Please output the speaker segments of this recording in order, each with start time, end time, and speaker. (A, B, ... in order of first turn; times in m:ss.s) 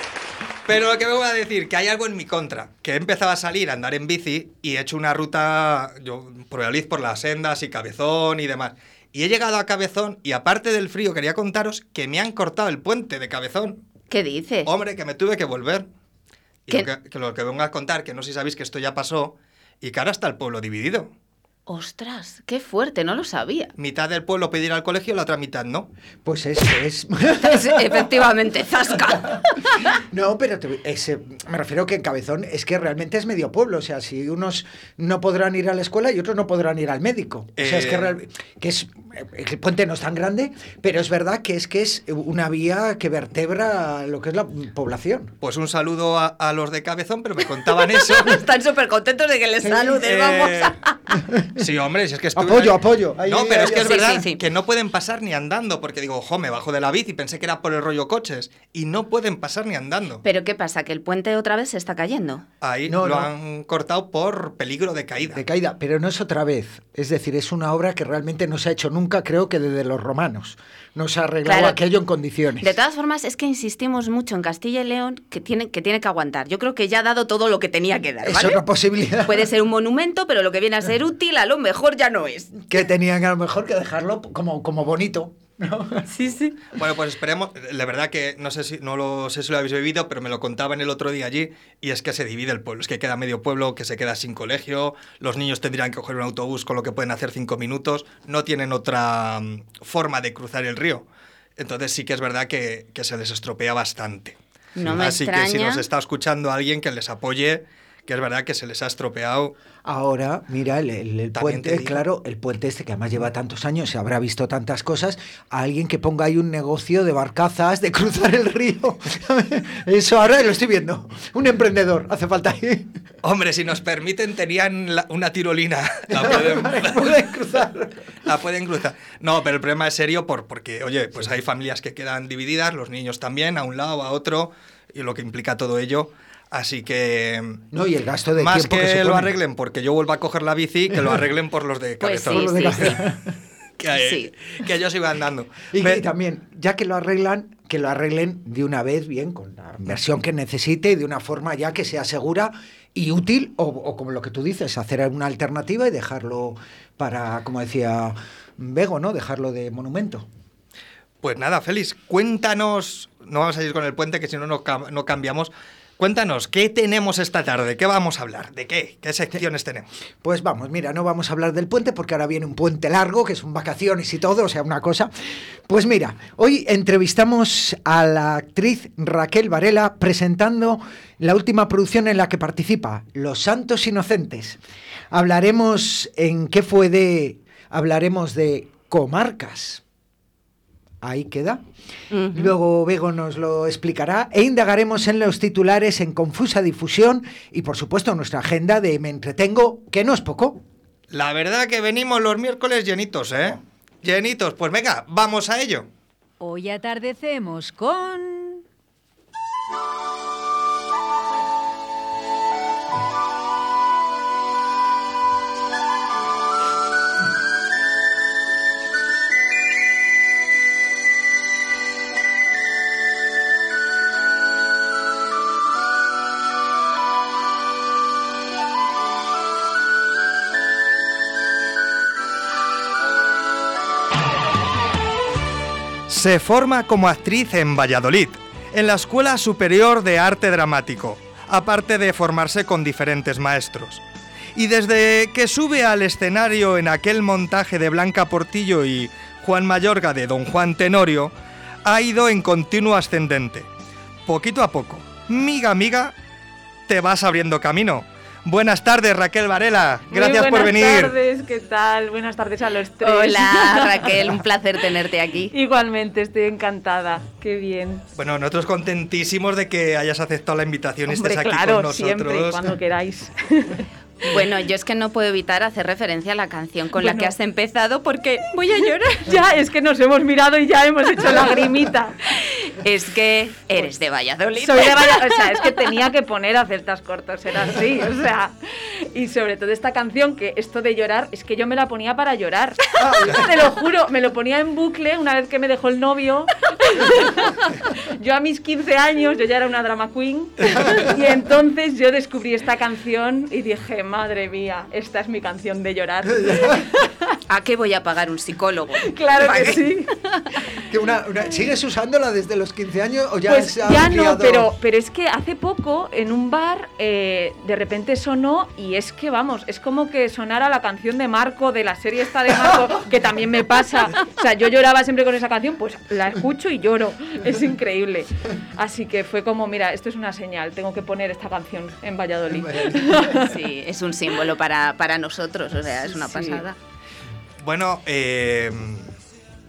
0:00.7-0:13.8 A
0:14.1-0:14.7 B
0:14.6-0:15.9 A
0:16.7-0:21.1 A
0:21.7-0:23.7 B
0:23.8-0:25.9 A
0:26.2-0:28.1 C
0:27.4-0:29.9 B
0:29.0-0:45.4 C
0:37.6-0:38.2 A
0:45.4-0:48.4 A
0:47.8-0:51.0 B
0:49.6-0:50.0 C
0:50.0-0:50.8 A
0:51.2-0:51.6 C
0:51.6-1:00.2 A
0:52.4-0:54.2 C
0:53.8-0:54.4 B
1:00.2-1:02.4 B
1:02.6-1:05.4 A
1:02.9-1:03.3 C
1:05.3-1:12.8 C
1:11.4-1:11.8 B
1:12.6-1:18.6 B
1:18.2-1:19.5 C
1:19.2-1:22.6 B
1:22.7-1:26.1 C
1:26.2-1:26.5 B
1:26.8-1:41.1 A
1:41.6-1:49.5 A
1:44.8-1:45.9 B
1:49.8-2:03.0 C
1:51.3-1:52.0 A
2:03.2-2:07.2 A
2:06.1-2:08.0 C
2:08.2-2:17.6 A
2:17.7-2:19.3 C
2:18.4-2:23.0 A
2:22.0-2:23.0 B
2:22.3-2:23.4 C
2:23.8-2:26.0 A
2:24.0-2:24.3 B
2:25.7-2:40.3 C
2:41.2-2:49.9 A
2:50.2-2:55.1 C
2:55.7-3:04.6 C
3:05.1-3:09.8 C
3:11.0-3:11.6 C
3:12.1-3:12.5 B
3:12.3-3:20.6 C
3:21.1-3:25.9 A
3:26.4-3:28.6 D
3:56.1-4:04.0 A
4:04.6-4:11.3 A
4:11.8-4:13.7 A
4:14.3-4:16.2 A
4:16.9-4:21.2 A
4:20.1-4:24.2 E
4:23.0-4:25.5 B
4:25.5-4:28.0 E
4:28.2-4:32.7 A
4:31.1-4:33.9 E
4:34.3-4:39.3 B
4:37.0-4:37.3 E
4:38.8-4:42.2 E
4:42.6-4:45.7 B
4:44.6-5:07.4 E
4:53.0-4:53.5 C
5:06.3-5:06.8 C
5:07.5-5:09.8 B
5:09.1-5:10.8 E
5:10.9-5:14.7 C
5:13.5-5:33.5 E
5:32.5-5:33.4 C
5:33.4-5:36.8 B
5:36.2-5:36.6 E
5:37.6-5:39.1 A